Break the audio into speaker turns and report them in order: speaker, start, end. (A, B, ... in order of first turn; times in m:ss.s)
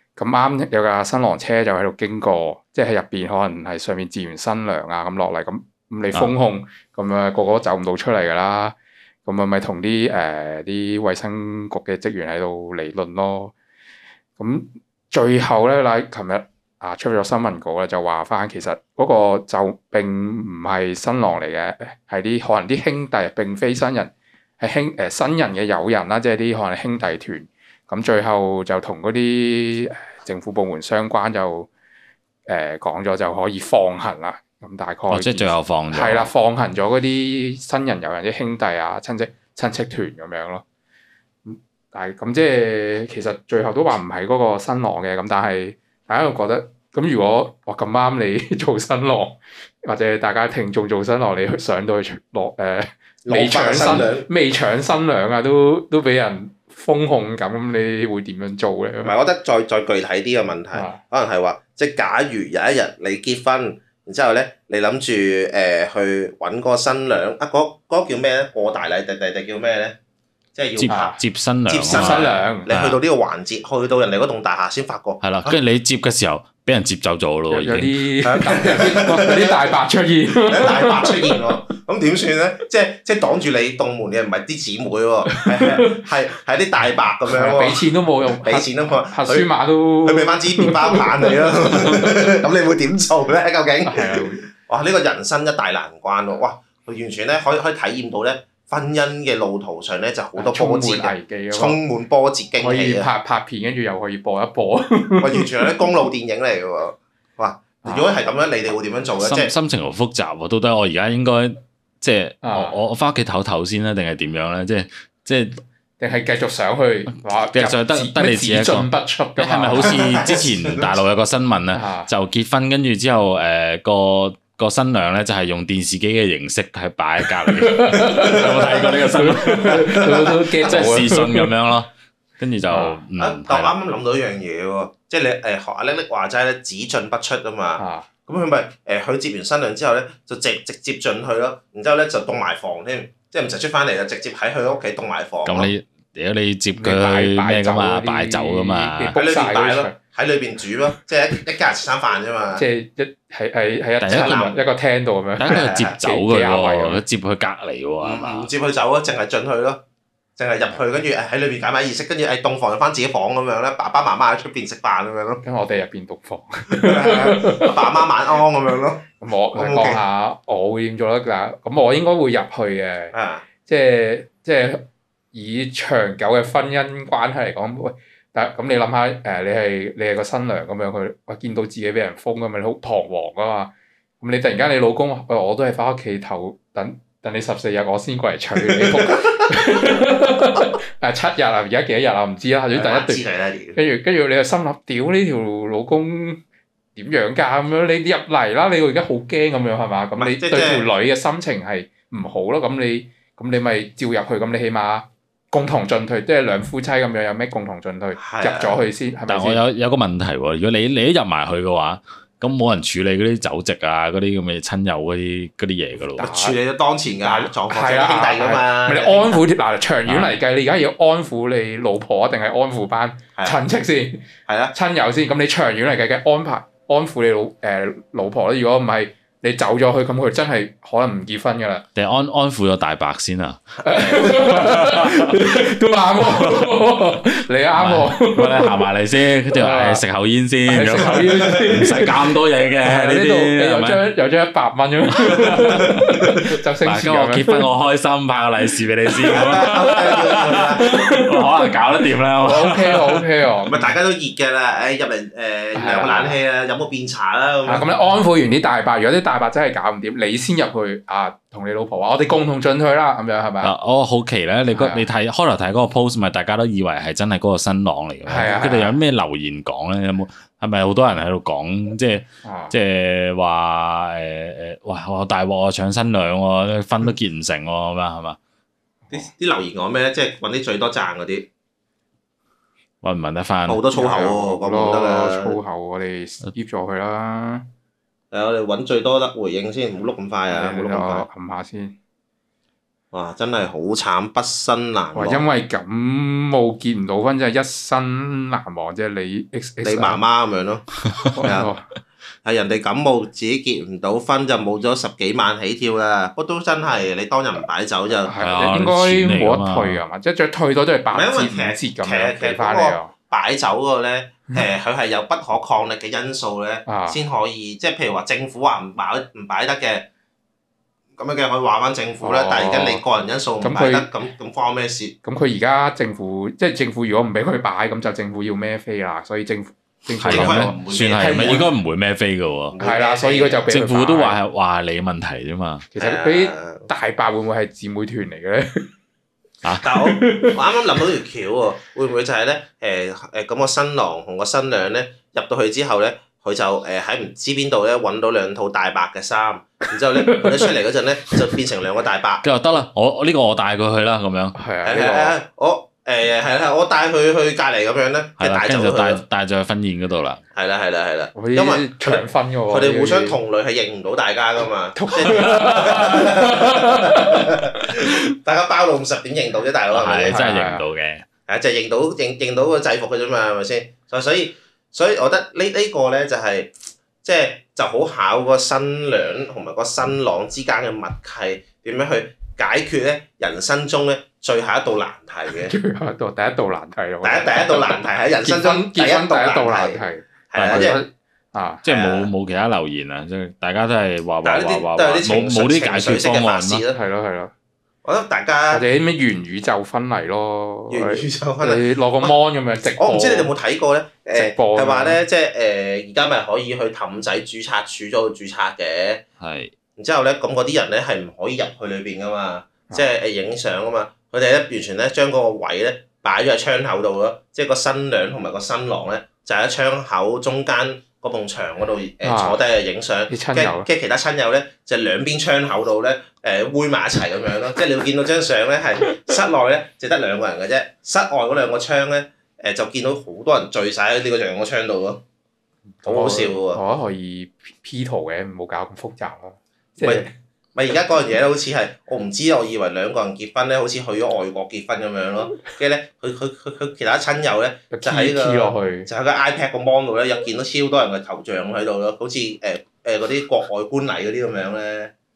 0:00.2-0:08.7 A
0:09.2-0:13.5 A
0:14.4-0:31.7 A
0:32.4-0:40.6 A
0:35.1-0:36.3 B
0:41.4-0:59.1 A
0:53.2-0:54.3 C
0:59.0-1:10.0 C
1:00.7-1:01.0 A
1:10.5-1:15.6 C
1:10.8-1:13.0 B
1:10.9-1:11.2 A
1:11.9-1:12.7 A
1:15.2-1:18.0 B
1:17.5-1:21.4 A
1:18.2-1:19.7 C
1:20.3-1:27.8 C
1:25.3-1:26.0 A
1:27.3-1:32.3 A
1:28.4-1:29.5 C
1:30.0-1:43.1 C
1:33.8-1:34.4 A
1:40.4-1:41.8 A
1:42.6-1:45.8 A
1:45.2-1:49.5 C
1:47.8-1:48.1 A
1:49.2-1:55.6 B
1:52.4-1:52.8 A
1:56.0-2:00.0 A
1:57.5-2:13.7 B
1:59.8-2:01.0 C
2:01.7-2:02.1 A
2:07.5-2:11.5 A
2:08.0-2:09.1 C
2:09.7-2:11.0 C
2:12.7-2:13.0 A
2:13.2-2:25.7 C
2:17.8-2:18.1 A
2:25.4-2:29.2 B
2:26.8-2:30.0 A
2:29.1-2:32.6 C
2:32.6-2:37.0 A
2:34.0-2:34.5 B
2:34.1-2:34.5 C
2:35.4-2:38.5 B
2:35.5-2:36.0 C
2:38.0-2:39.8 C
2:40.4-2:45.4 C
2:45.4-2:48.1 A
2:46.7-2:50.0 C
2:49.2-2:53.1 A
2:53.1-2:53.5 C
2:53.6-2:54.8 A
2:55.3-3:13.2 A
3:12.7-3:13.8 C
3:13.7-3:16.4 A
3:17.0-3:29.6 A
3:20.2-3:20.9 C
3:28.2-3:28.8 C
3:29.3-3:36.3 B
3:36.2-3:36.6 A
3:36.2-3:39.4 C
3:37.2-3:51.8 A
3:40.0-3:40.3 B
3:44.5-3:44.7 C
3:52.0-3:55.2 B
3:53.8-3:58.8 A
3:53.9-3:54.4 C
3:56.2-3:56.7 B
3:57.7-4:04.0 B
3:59.5-4:00.0 A
4:00.6-4:07.7 A
4:01.1-4:01.8 C
4:05.3-4:13.2 B
4:09.3-4:11.7 A
4:09.3-4:11.1 C
4:12.4-4:13.9 A
4:13.7-4:17.9 C
4:15.7-4:16.4 A
4:17.6-4:23.7 A
4:23.6-4:38.4 B
4:24.7-4:25.1 A
4:28.2-4:29.0 A
4:32.4-4:32.7 A
4:39.1-4:41.5 C
4:43.0-4:43.8 B
4:43.7-4:45.6 C
4:43.9-4:47.6 A
4:48.3-4:51.2 C
4:50.5-4:52.0 A
4:53.1-4:55.5 C
4:55.1-5:00.2 A
4:59.8-5:01.7 C
5:01.4-5:01.8 A
5:02.4-5:08.3 C
5:08.2-5:13.1 A
5:08.3-5:10.0 B
5:11.1-5:20.1 C
5:16.8-5:17.2 A
5:21.2-5:25.1 C
5:22.2-5:23.0 A
5:23.6-5:24.1 A
5:25.2-5:31.7 A
5:30.2-5:32.8 B
5:30.2-5:31.7 C
5:32.7-5:33.7 C
5:32.8-5:34.4 A
5:33.7-5:35.8 B
5:35.9-5:38.9 A
5:36.0-5:36.9 C
5:39.8-5:40.6 A
5:39.8-5:52.4 C
5:50.2-5:50.7 A
5:52.4-5:54.6 B
5:54.5-5:55.4 A
5:54.8-5:59.2 C
5:58.4-6:00.4 B
6:00.5-6:10.4 C
6:01.3-6:03.4 A
6:04.9-6:07.6 A
6:09.9-6:11.2 B
6:10.3-6:10.8 A
6:11.5-6:25.7 C
6:25.5-6:31.8 A
6:27.2-6:31.0 C
6:30.5-6:30.9 B
6:31.8-6:36.8 B
6:31.8-6:32.3 C
6:34.4-6:37.0 C
6:36.9-6:37.5 A
6:38.0-6:38.8 C
6:38.7-6:43.5 A
6:40.9-6:42.4 C
6:43.0-6:49.2 C
6:44.3-6:45.2 A
6:49.4-6:49.7 B
6:50.0-7:15.2 C
7:02.2-7:02.6 A
7:03.3-7:03.9 A
7:16.0-7:20.3 A
7:16.0-7:16.8 C
7:20.0-7:35.1 C
7:27.9-7:29.1 A